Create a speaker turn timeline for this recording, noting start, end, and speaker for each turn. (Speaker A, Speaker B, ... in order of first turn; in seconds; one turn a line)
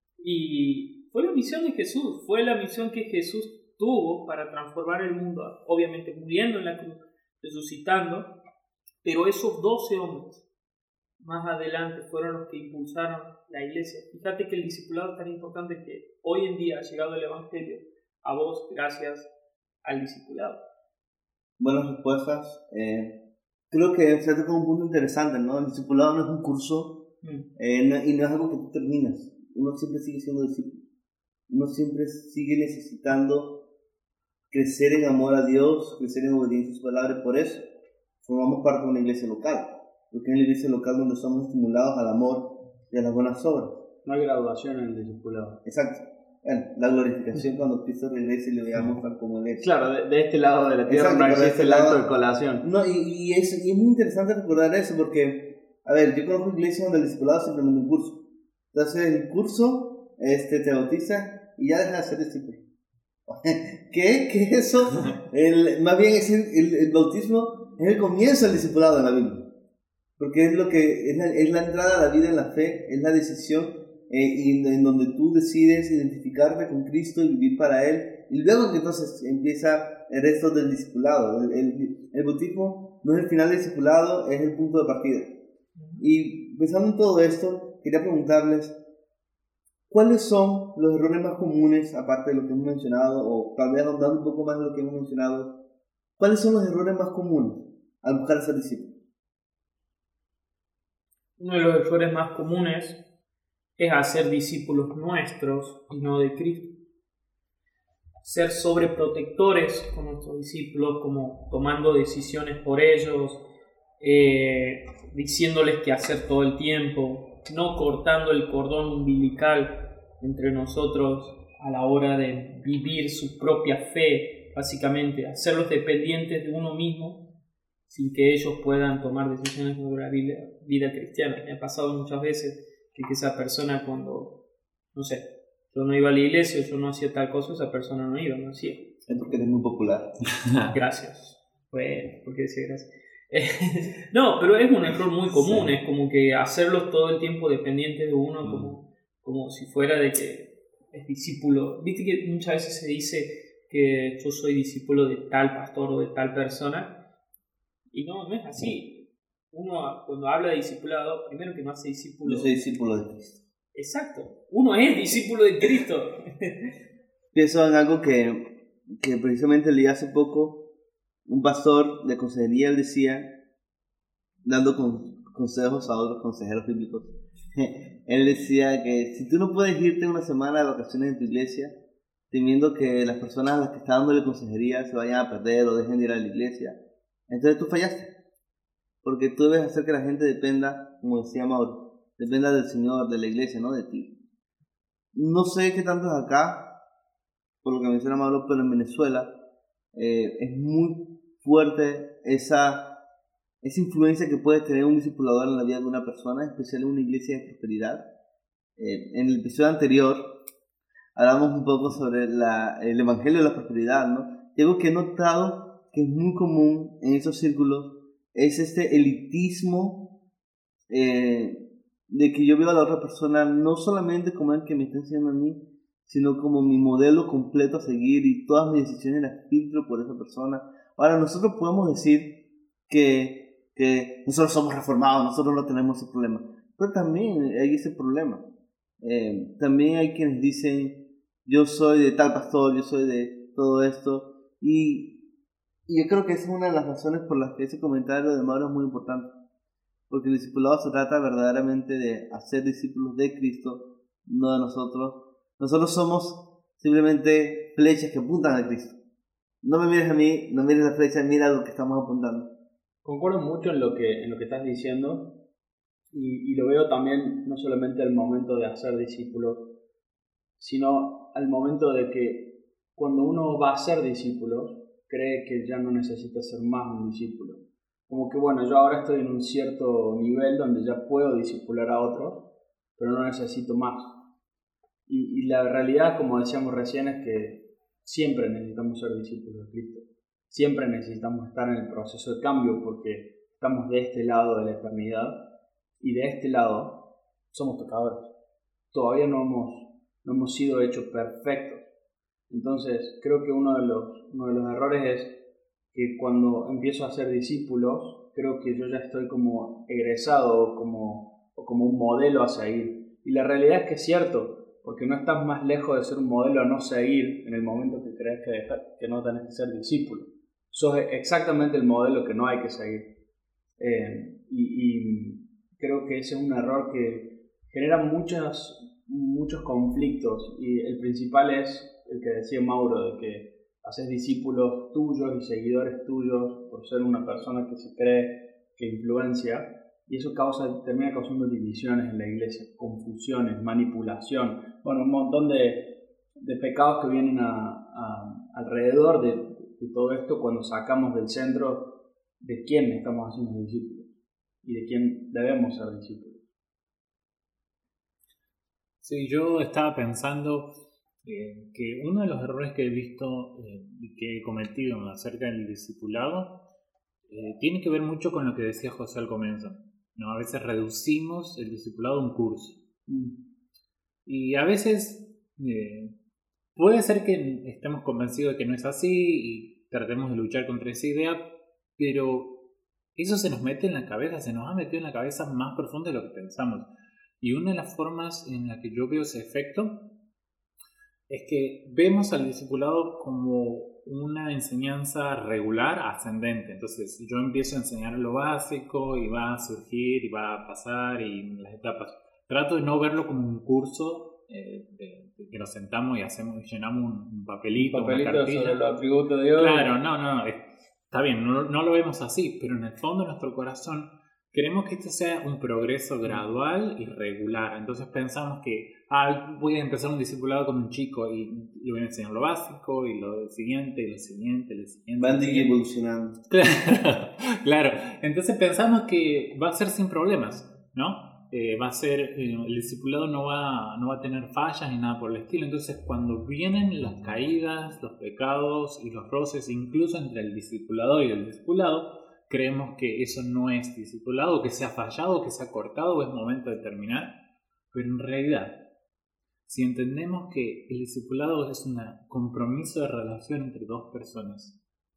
Speaker A: 0.2-8.3
Speaker A: 9.0-10.4
Speaker A: 11.2-19.3
Speaker A: 19.8-20.6
Speaker B: 21.6-23.1
Speaker B: 23.7-27.0
Speaker B: 27.6-30.8
Speaker B: 31.5-33.6
Speaker B: 34.5-37.7
Speaker B: 38.2-43.8
Speaker C: 44.0-45.6
Speaker B: 45.6-49.7
Speaker C: 49.6-52.7
Speaker B: 50.9-52.0
Speaker B: 52.6-58.2
Speaker B: 58.7-62.6
Speaker B: 63.3-69.5
Speaker B: 70.2-85.4
Speaker B: 86.0-88.8
Speaker B: 89.9-95.5
Speaker B: 96.2-98.9
Speaker A: 101.4-103.0
Speaker A: 103.8-106.7
Speaker A: 108.2-113.4
Speaker A: 114.0-127.2
Speaker A: 127.9-134.3
Speaker A: 134.9-139.3
Speaker B: 139.1-140.1
Speaker D: 140.4-140.7
Speaker A: 140.7-156.9
Speaker A: 157.9-162.7
Speaker B: 162.2-163.4
Speaker A: 163.8-166.7
Speaker B: 167.3-170.6
Speaker B: 171.3-173.3
Speaker B: 174.4-181.7
Speaker B: 182.3-186.8
Speaker B: 187.3-188.1
Speaker B: 189.0-194.1
Speaker B: 195.2-196.7
Speaker B: 197.6-199.3
Speaker B: 199.9-202.9
Speaker B: 203.6-208.1
Speaker B: 208.8-210.3
Speaker B: 211.2-220.1
Speaker B: 220.9-238.4
Speaker B: 239.0-245.2
Speaker B: 245.9-249.3
Speaker B: 250.1-258.9
Speaker B: 259.6-262.5
Speaker C: 263.0-265.3
Speaker C: 266.1-269.7
Speaker C: 270.6-282.5
Speaker C: 283.0-284.2
Speaker C: 285.1-295.4
Speaker C: 296.0-298.3
Speaker C: 298.9-301.9
Speaker C: 302.5-305.4
Speaker C: 305.9-323.1
Speaker C: 323.8-354.1
Speaker C: 354.6-356.4
Speaker D: 359.0-360.7
Speaker D: 361.2-366.6
Speaker D: 367.3-372.8
Speaker C: 373.1-373.4
Speaker D: 374.3-376.1
Speaker D: 376.8-381.4
Speaker D: 382.0-382.5
Speaker D: 383.2-386.9
Speaker D: 387.4-390.0
Speaker D: 391.3-408.8
Speaker C: 407.8-409.9
Speaker D: 409.6-425.7
Speaker B: 425.2-426.4
Speaker D: 426.5-447.3
Speaker D: 447.9-448.8
Speaker D: 449.7-454.8